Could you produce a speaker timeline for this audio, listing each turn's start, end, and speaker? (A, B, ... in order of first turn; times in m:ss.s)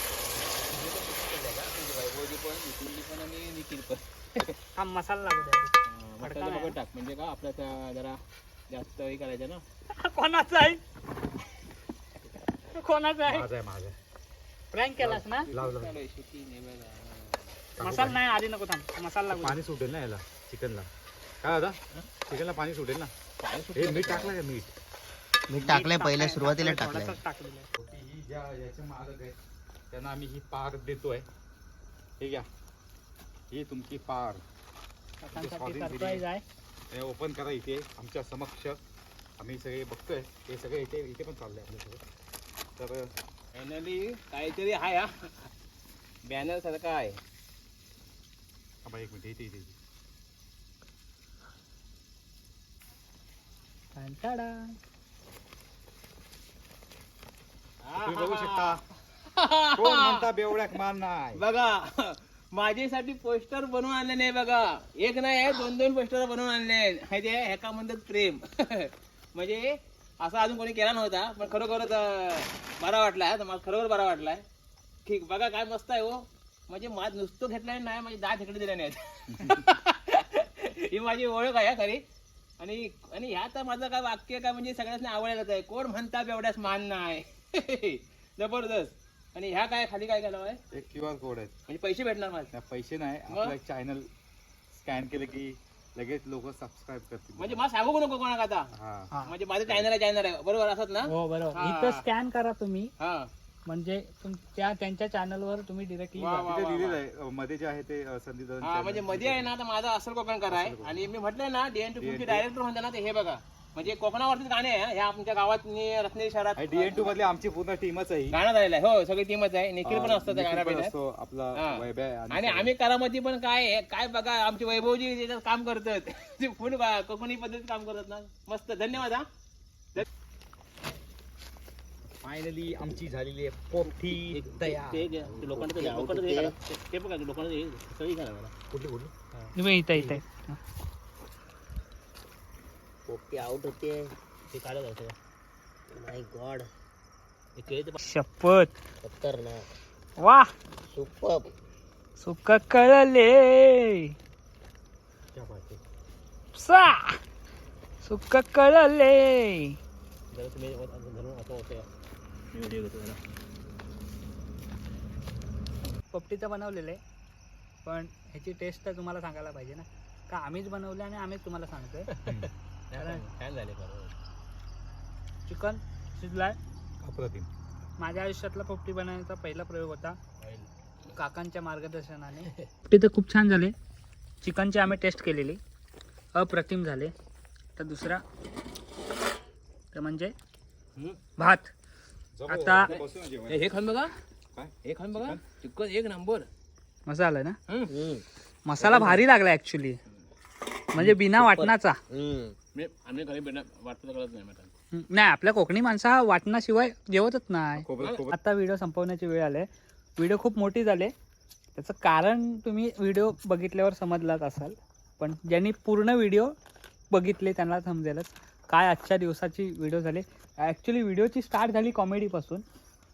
0:00.2-0:04.6 A
0:04.7-0:06.7 B
0:05.8-0:08.2 A
0:08.7-0:09.6 A
0:10.0-0:10.8 B
0:12.8-0:13.4 B
0:13.3-0:14.0 C
0:14.7-0:15.5 B
0:15.0-0:15.9 C
0:15.2-0:17.5 A
0:17.8-0:18.2 C
0:17.8-0:19.6 B
0:19.3-0:20.9 C
0:21.4-0:23.1 C
0:23.4-0:24.3 A
0:23.7-0:24.7 C
0:25.5-0:27.2 D
0:25.6-0:27.7 B
0:27.8-0:29.4 C
0:29.9-0:31.2 C
0:32.2-0:32.5 C
0:33.5-0:34.4 C
0:35.2-0:36.4 B
0:35.3-0:36.2 C
0:36.9-0:38.8 C
0:39.4-0:42.0 C
0:42.8-0:43.1 C
0:43.5-0:45.5 A
0:46.2-0:47.2 A
0:48.8-0:49.7 C
0:53.9-0:54.8 B
0:57.8-1:00.3 A
0:58.0-0:58.8 C
0:59.7-1:01.4 C
1:01.4-1:14.4 A
1:15.0-1:22.0 A
1:19.3-1:19.6 C
1:22.6-1:30.6 A
1:30.7-1:31.5 C
1:31.7-1:32.5 A
1:32.5-1:34.1 C
1:33.3-1:33.5 A
1:34.7-1:37.6 C
1:37.4-1:38.7 A
1:38.7-1:39.1 C
1:39.2-1:42.0 A
1:41.0-1:42.9 B
1:43.0-1:43.3 A
1:43.6-1:46.5 B
1:46.2-1:47.0 A
1:46.4-1:49.5 C
1:48.6-1:57.1 A
1:50.5-1:51.1 C
1:52.0-1:52.5 C
1:56.6-1:58.4 C
1:58.3-2:00.9 A
1:59.8-2:02.7 C
2:01.5-2:09.3 A
2:12.2-2:15.1 C
2:14.0-2:18.5 A
2:15.3-2:16.5 D
2:18.7-2:19.1 C
2:19.5-2:20.6 B
2:23.1-2:24.1 D
2:24.5-2:25.1 A
2:25.9-2:26.7 D
2:27.6-2:28.0 A
2:28.0-2:28.7 B
2:29.0-2:29.6 D
2:30.2-2:30.5 B
2:30.9-2:31.5 D
2:32.2-2:34.1 B
2:35.3-2:35.8 A
2:36.5-2:37.2 B
2:38.0-2:39.8 B
2:40.3-2:41.9 A
2:42.5-2:43.2 A
2:46.1-2:47.0 B
2:47.8-2:52.1 B
2:52.1-2:54.1 A
2:52.2-2:52.5 C
2:53.0-2:53.2 B
2:55.5-2:56.6 B
2:57.0-2:57.5 C
2:58.0-3:00.2 B
3:00.4-3:00.7 A
3:01.1-3:03.7 B
3:04.4-3:05.6 B
3:06.3-3:07.1 B
3:07.8-3:08.2 B
3:09.9-3:10.3 B
3:11.4-3:11.7 B
3:12.3-3:13.6 C
3:12.5-3:12.9 B
3:12.8-3:14.1 A
3:14.5-3:15.4 C
3:14.8-3:16.5 A
3:17.1-3:17.6 B
3:17.7-3:17.9 A
3:17.9-3:18.2 D
3:18.6-3:20.0 B
3:18.8-3:19.2 D
3:20.9-3:22.0 B
3:21.0-3:22.6 D
3:22.7-3:24.7 A
3:24.9-3:31.1 B
3:27.8-3:28.4 C
3:31.7-3:36.5 B
3:37.1-3:42.6 B